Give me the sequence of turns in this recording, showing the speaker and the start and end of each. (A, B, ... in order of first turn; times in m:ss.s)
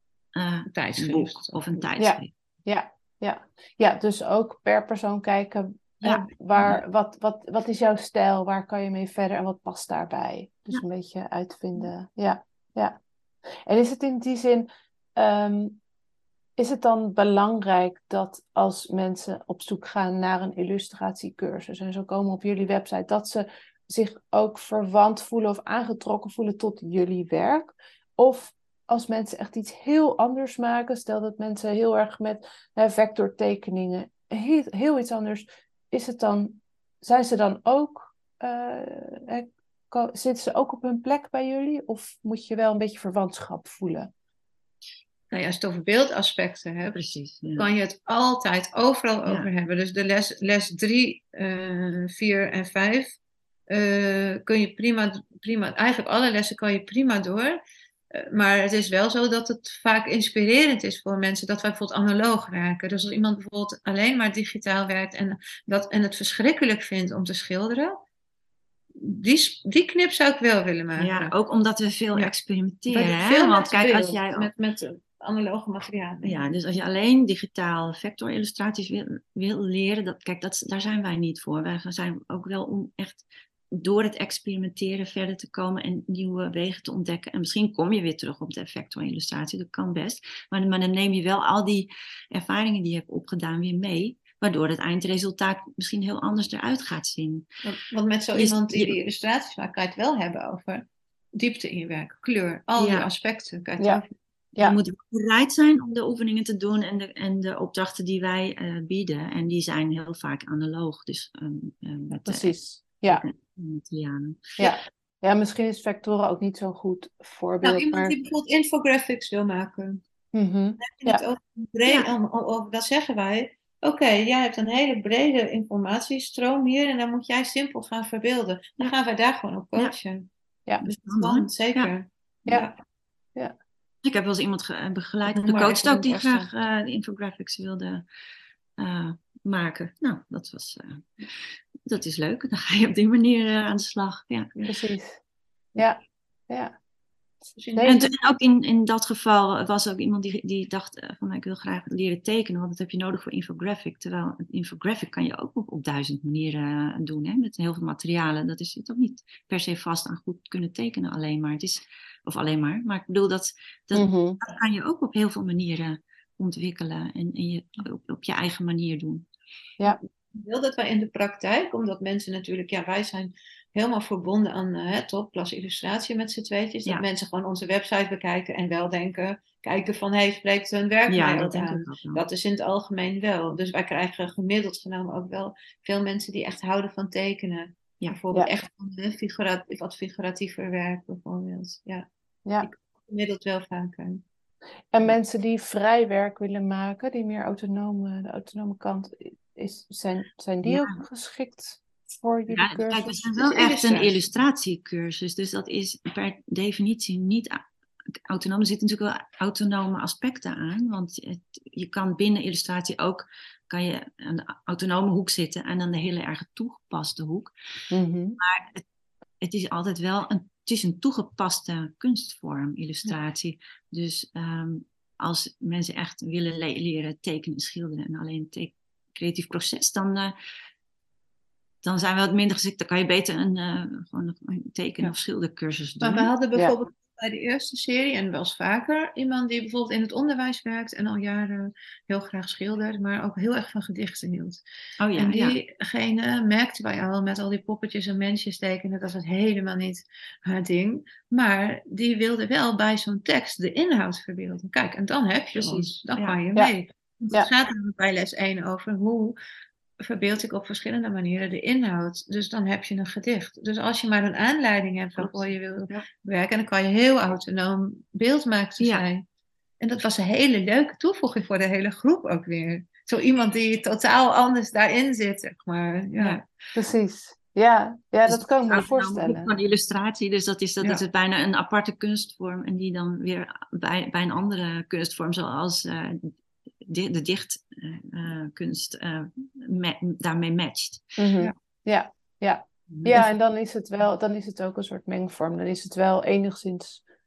0:00.4-0:02.3 A
0:00.7-0:01.9 B
0:02.0-0:13.0 C
0:06.0-0:06.8 A
0:13.7-0:15.8 C
0:16.6-0:44.1 C
0:45.3-0:47.0 B
0:47.0-0:47.7 A
0:47.6-0:53.2 B
0:53.7-0:57.6 B
0:58.1-1:08.0 B
1:09.0-1:11.3 B
1:11.0-1:14.5 A
1:12.9-1:16.5 B
1:16.2-1:37.5 A
1:37.7-1:44.2 B
1:38.3-1:39.0 A
1:42.8-1:43.1 A
1:44.6-1:52.6 A
1:52.2-1:53.2 C
1:53.1-1:54.6 A
1:54.6-1:58.2 C
1:57.6-2:00.0 B
2:00.3-2:01.2 C
2:00.8-2:10.3 B
2:10.8-2:11.9 A
2:10.8-2:12.8 B
2:14.0-2:18.0 A
2:15.3-2:16.5 B
2:18.8-2:24.5 A
2:24.7-2:25.2 C
2:25.8-2:26.8 C
2:27.6-2:27.9 B
2:27.8-2:28.1 C
2:27.8-2:49.3 A
2:44.0-2:44.4 C
2:49.8-3:12.1 B
3:01.1-3:02.2 A
3:12.6-3:14.2 B
3:14.9-3:23.2 C
3:20.6-3:21.0 A
3:22.5-3:27.6 A
3:23.4-3:24.2 B
3:28.3-3:37.5 A
3:37.9-3:38.4 C
3:38.4-3:38.8 A
3:39.4-3:50.3 A
3:51.8-3:56.3 A
3:56.0-4:04.6 B
4:05.0-4:05.6 A
4:05.2-4:19.4 B
4:15.6-4:16.4 A
4:20.0-4:29.2 B
4:25.2-4:26.1 A
4:28.8-4:29.0 A
4:29.8-4:36.4 B
4:36.8-4:39.6 C
4:38.3-4:51.2 A
4:51.2-4:57.0 C
4:52.9-4:53.3 A